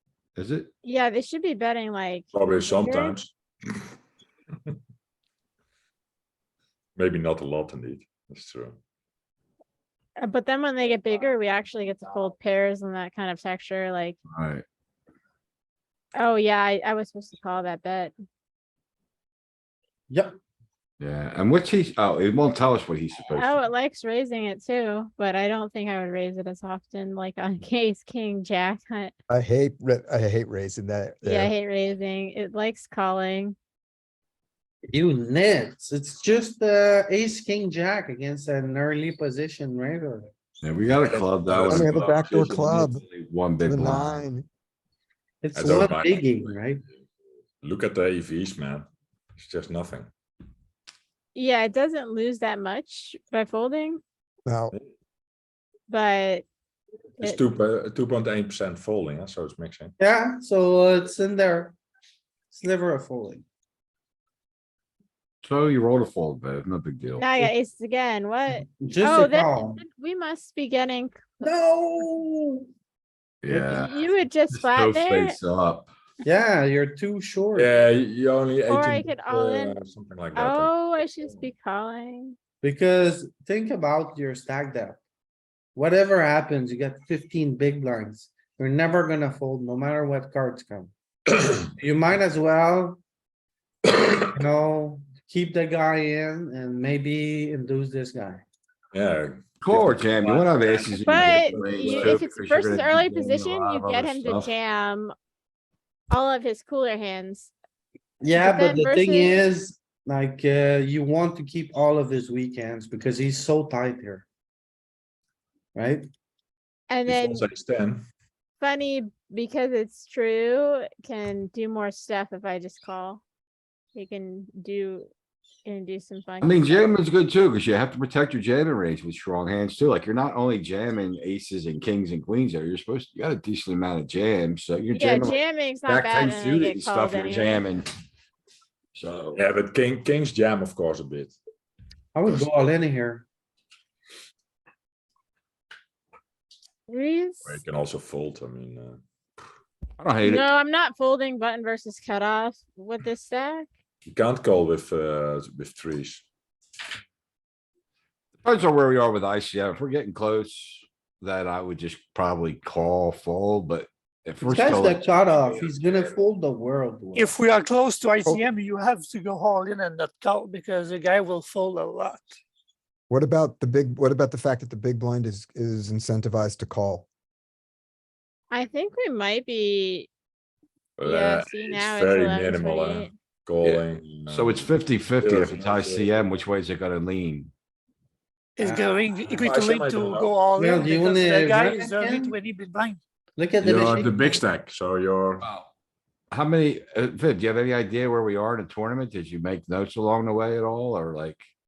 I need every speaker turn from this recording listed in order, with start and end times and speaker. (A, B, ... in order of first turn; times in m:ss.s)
0:00.4-0:00.7 A
0:00.8-0:03.2 B
0:02.3-0:03.3 C
0:07.0-0:08.8 C
0:10.2-0:14.2 B
0:14.3-0:14.6 A
0:16.2-0:18.1 B
0:20.1-0:20.3 D
0:21.0-0:23.6 A
0:23.3-0:29.1 B
0:29.3-0:31.5 E
0:31.2-0:33.5 B
0:34.9-0:40.3 D
0:40.6-0:44.3 A
0:41.1-0:42.5 C
0:41.5-0:43.0 E
0:43.6-0:44.4 E
0:45.4-0:46.8 D
0:45.5-0:46.5 C
0:47.6-0:50.1 C
0:51.3-0:54.0 B
0:54.4-0:54.7 E
0:55.9-0:56.4 B
0:57.2-0:59.9 C
1:00.0-1:01.8 D
1:02.5-1:03.4 D
1:05.4-1:07.3 A
1:07.2-1:11.4 B
1:08.8-1:09.8 D
1:11.4-1:12.7 D
1:13.4-1:14.0 A
1:13.5-1:13.8 D
1:13.6-1:15.4 B
1:14.5-1:15.9 A
1:16.2-1:17.7 D
1:17.5-1:21.4 C
1:18.7-1:19.8 B
1:20.3-1:22.4 B
1:22.6-1:25.0 D
1:25.7-1:30.9 D
1:31.3-1:31.6 C
1:31.8-1:33.0 D
1:33.8-1:34.4 C
1:34.3-1:38.4 D
1:38.9-1:42.2 C
1:39.6-1:44.3 A
1:41.0-1:45.1 B
1:46.1-1:47.5 B
1:48.2-1:54.2 D
1:48.3-1:49.4 B
1:55.7-1:56.1 D
1:56.9-1:57.5 B
1:57.1-1:58.0 C
1:58.6-2:03.2 B
2:03.9-2:05.1 B
2:05.6-2:06.9 B
2:06.4-2:17.9 A
2:14.9-2:17.7 B
2:18.9-2:19.4 A
2:19.3-2:21.3 C
2:22.1-2:23.2 D
2:26.9-2:27.6 B
2:27.4-2:29.0 C
2:30.0-2:30.5 A
2:30.2-2:33.7 B
2:34.1-2:36.2 C
2:38.4-2:45.0 A
2:44.4-2:47.3 D
2:45.1-2:46.1 C
2:47.1-2:52.3 F
2:53.1-2:57.1 E
2:58.5-3:00.1 B
3:01.0-3:06.2 C
3:01.0-3:03.1 B
3:03.6-3:07.5 A
3:08.6-3:13.0 F
3:08.6-3:09.0 D
3:09.2-3:10.4 C
3:10.6-3:12.4 D
3:13.4-3:14.4 D
3:13.6-3:15.4 C
3:15.4-3:15.7 A
3:16.3-3:21.4 A